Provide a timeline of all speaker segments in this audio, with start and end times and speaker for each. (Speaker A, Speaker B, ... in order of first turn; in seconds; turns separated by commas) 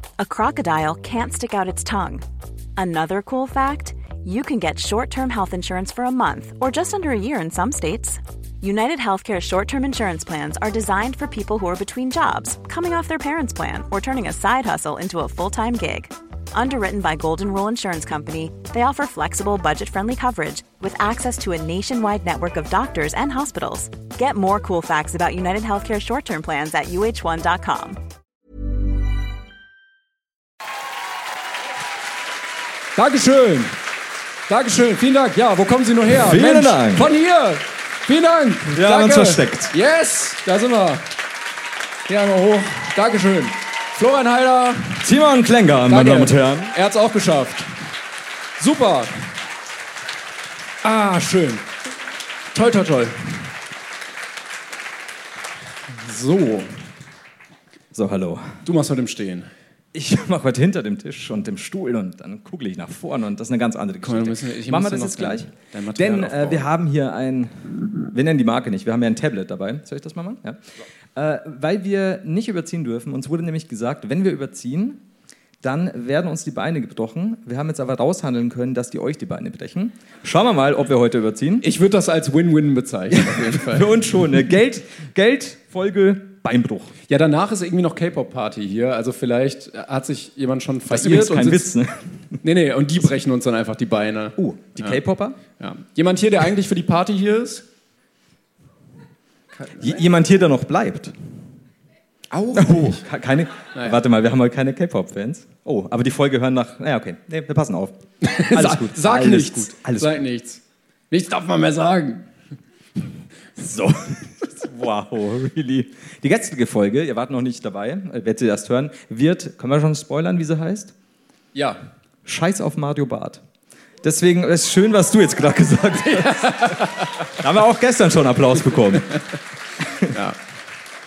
Speaker A: 0.2-2.2, Speaker A: 2.8-28.0, Speaker B: 33.0-33.8, Speaker B: 34.5-41.0, Speaker C: 36.1-37.1, Speaker C: 38.7-39.7, Speaker B: 42.1-45.1, Speaker C: 45.0-46.7, Speaker B: 45.9-47.7, Speaker B: 48.6-49.2, Speaker B: 50.8-51.7, Speaker B: 52.5-53.5, Speaker B: 55.9-56.8, Speaker C: 57.9-58.6, Speaker B: 58.6-59.5, Speaker C: 59.9-70.6, Speaker B: 64.0-66.7, Speaker C: 71.1-75.0, Speaker C: 75.6-81.7, Speaker B: 81.6-84.0, Speaker C: 83.1-86.9, Speaker B: 87.1-91.7, Speaker C: 90.9-92.1, Speaker B: 92.4-95.0, Speaker C: 94.4-95.4, Speaker B: 95.6-97.6, Speaker C: 99.7-101.2, Speaker B: 102.3-103.0, Speaker C: 102.5-110.2, Speaker B: 103.7-104.0, Speaker B: 108.2-112.3, Speaker C: 113.5-120.9, Speaker B: 121.5-121.8, Speaker C: 122.2-123.4, Speaker C: 124.0-129.2, Speaker B: 126.3-127.1, Speaker C: 129.8-130.1, Speaker B: 130.0-130.4